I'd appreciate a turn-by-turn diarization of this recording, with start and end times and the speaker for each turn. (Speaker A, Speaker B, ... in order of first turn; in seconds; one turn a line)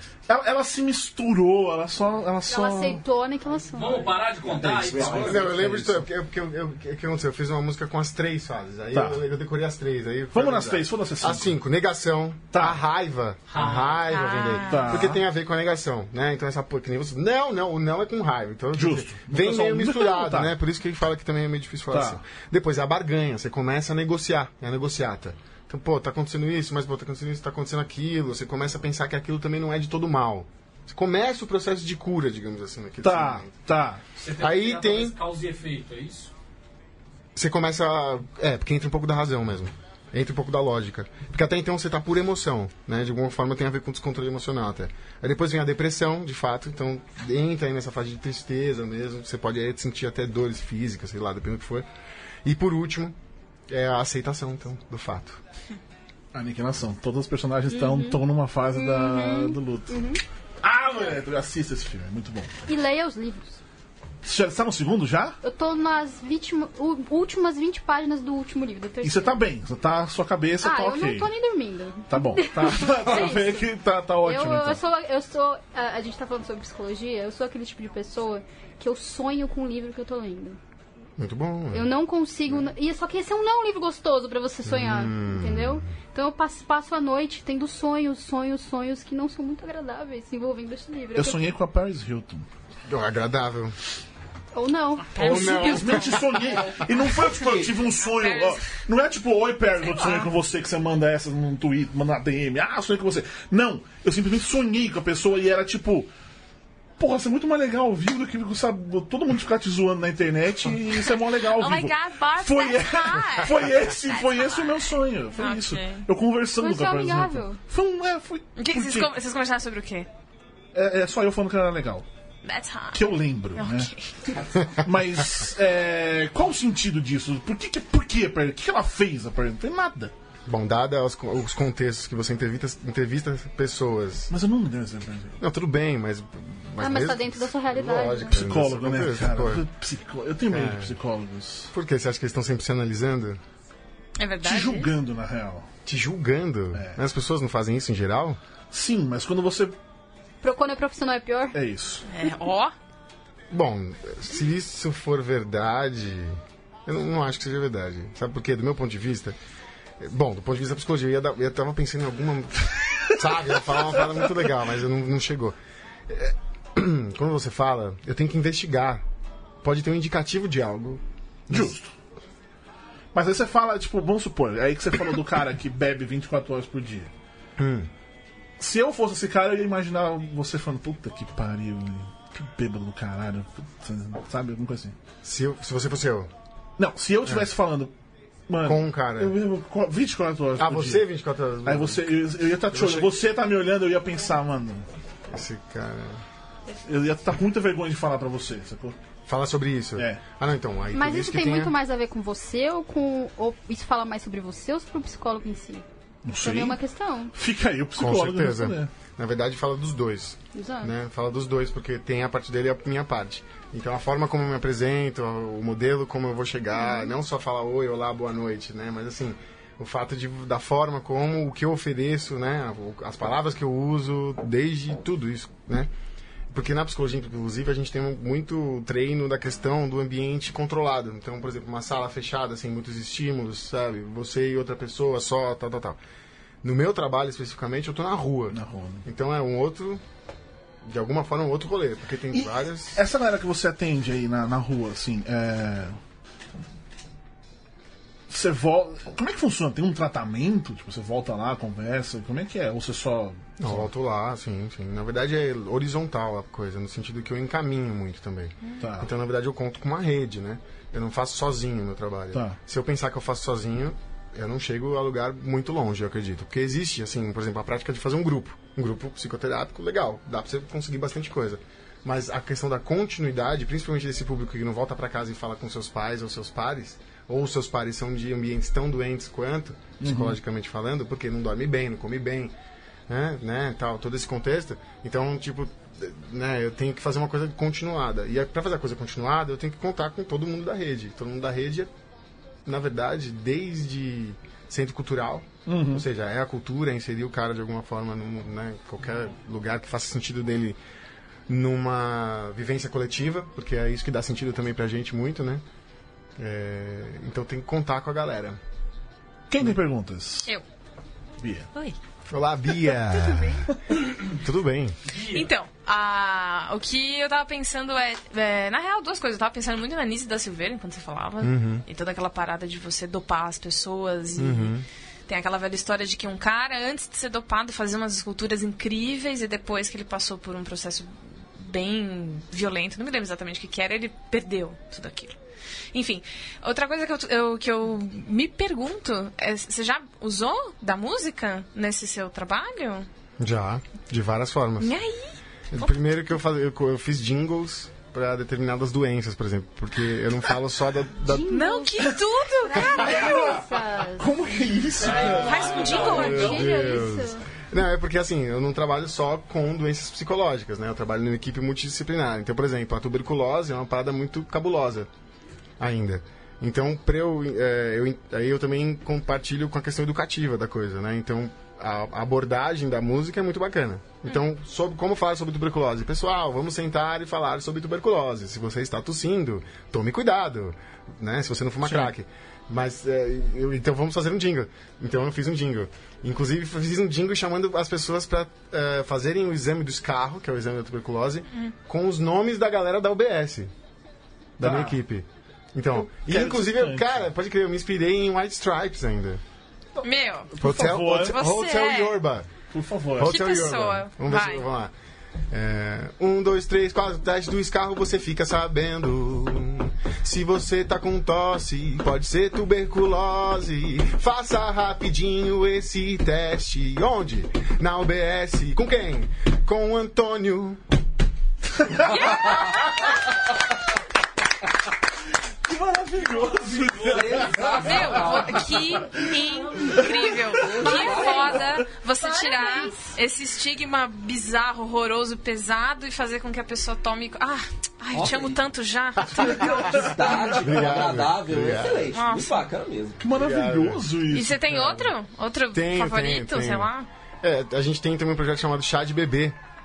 Speaker A: 0.3-3.0
Speaker B: 2.5-4.2
Speaker C: 3.7-5.6
Speaker A: 4.5-6.0
Speaker D: 5.0-33.5
Speaker A: 8.9-9.2
Speaker A: 10.3-11.6
Speaker A: 12.5-12.8
Speaker C: 13.5-14.1
Speaker E: 14.1-15.1
Speaker A: 14.7-15.2
Speaker A: 18.7-20.5
Speaker A: 21.9-22.2
Speaker A: 33.0-34.0
Speaker C: 34.2-36.3
Speaker D: 34.4-35.2
Speaker D: 37.4-51.9
Speaker D: 52.5-53.2
Speaker D: 53.7-55.4
Speaker A: 56.3-60.0
Speaker B: 57.7-58.2
Speaker B: 58.7-60.2
Speaker A: 60.6-62.6
Speaker B: 62.7-63.6
Speaker A: 64.2-65.4
Speaker B: 65.4-69.4
Speaker A: 69.0-71.3
Speaker B: 70.6-73.7
Speaker A: 72.1-74.8
Speaker B: 74.2-80.6
Speaker D: 81.2-81.9
Speaker B: 81.7-91.4
Speaker D: 84.7-85.9
Speaker A: 91.2-92.5
Speaker D: 92.9-93.8
Speaker B: 94.5-96.2
Speaker A: 95.2-106.1
Speaker D: 95.2-96.2
Speaker E: 95.5-95.8
Speaker E: 98.0-98.7
Speaker E: 99.8-100.3
Speaker A: 107.0-119.1
Speaker E: 111.4-116.1
Speaker B: 116.6-117.6
Speaker E: 118.6-120.1
Speaker A: 120.7-122.1
Speaker E: 122.4-124.1
Speaker A: 122.9-123.9
Speaker A: 124.8-130.1
Speaker D: 130.5-134.3
Speaker A: 134.3-135.4
Speaker D: 135.4-139.7
Speaker B: 136.8-138.4
Speaker A: 138.3-141.7
Speaker D: 140.5-141.0
Speaker D: 141.7-143.4
Speaker E: 144.2-144.9
Speaker A: 144.4-145.7
Speaker D: 145.9-148.4
Speaker A: 148.7-149.8
Speaker B: 150.4-151.6
Speaker A: 151.5-152.1
Speaker E: 152.1-152.7
Speaker D: 153.5-159.4
Speaker D: 160.0-165.6
Speaker D: 166.1-169.1
Speaker D: 169.6-171.8
Speaker A: 171.5-171.9
Speaker A: 173.1-177.1
Speaker D: 177.6-177.9
Speaker A: 178.6-185.0
Speaker D: 185.2-186.3
Speaker A: 186.8-187.9
Speaker A: 188.5-191.1
Speaker D: 188.6-189.4
Speaker D: 190.6-193.1
Speaker A: 191.7-194.9
Speaker D: 195.3-196.2
Speaker A: 196.8-199.0
Speaker D: 199.3-201.8
Speaker B: 200.9-205.8
Speaker A: 206.2-206.8
Speaker B: 206.4-207.3
Speaker A: 207.3-208.9
Speaker D: 208.0-225.9
Speaker B: 210.5-210.9
Speaker D: 226.5-236.0
Speaker D: 236.6-240.0
Speaker A: 238.5-239.1
Speaker D: 240.8-243.0
Speaker A: 242.3-246.0
Speaker A: 248.3-253.9
Speaker D: 253.6-282.5
Speaker A: 258.8-259.1
Speaker A: 280.0-280.4
Speaker D: 283.1-291.9
Speaker D: 292.7-300.8
Speaker A: 295.7-296.1
Speaker D: 301.5-305.6
Speaker D: 306.4-308.6
Speaker A: 309.5-310.5
Speaker A: 311.4-311.7
Speaker D: 312.3-313.6
Speaker E: 313.1-313.6
Speaker D: 314.3-315.0
Speaker C: 315.1-315.5
Speaker E: 315.3-324.7
Speaker D: 321.4-321.9
Speaker D: 324.4-324.9
Speaker E: 325.3-335.4
Speaker E: 335.9-343.1
Speaker D: 343.4-344.9
Speaker E: 344.8-345.9
Speaker D: 345.7-351.6
Speaker B: 351.2-352.1
Speaker E: 351.5-353.3
Speaker B: 352.7-354.4
Speaker A: 352.9-356.1
Speaker C: 355.0-357.0
Speaker E: 355.0-356.7
Speaker B: 356.0-357.5
Speaker D: 356.0-365.1
Speaker D: 365.8-393.7
Speaker D: 394.6-399.4
Speaker A: 394.6-395.0
Speaker A: 395.9-397.2
Speaker A: 400.0-401.4
Speaker E: 400.0-400.5
Speaker D: 400.6-402.5
Speaker E: 401.2-402.2
Speaker A: 402.7-403.4
Speaker D: 403.1-404.9
Speaker E: 403.2-404.7
Speaker D: 405.5-420.8
Speaker E: 422.0-423.0
Speaker A: 425.7-428.4
Speaker C: 426.5-428.4
Speaker F: 427.0-428.7
Speaker E: 427.7-440.6
Speaker A: 429.0-430.6
Speaker F: 430.6-431.6
Speaker B: 430.7-433.2
Speaker F: 438.1-438.6
Speaker A: 439.4-440.1
Speaker F: 439.6-443.2
Speaker D: 440.6-442.1
Speaker E: 442.1-442.6
Speaker A: 443.2-445.1
Speaker D: 443.3-444.1
Speaker E: 444.3-447.1
Speaker D: 445.7-446.9
Speaker D: 447.4-449.6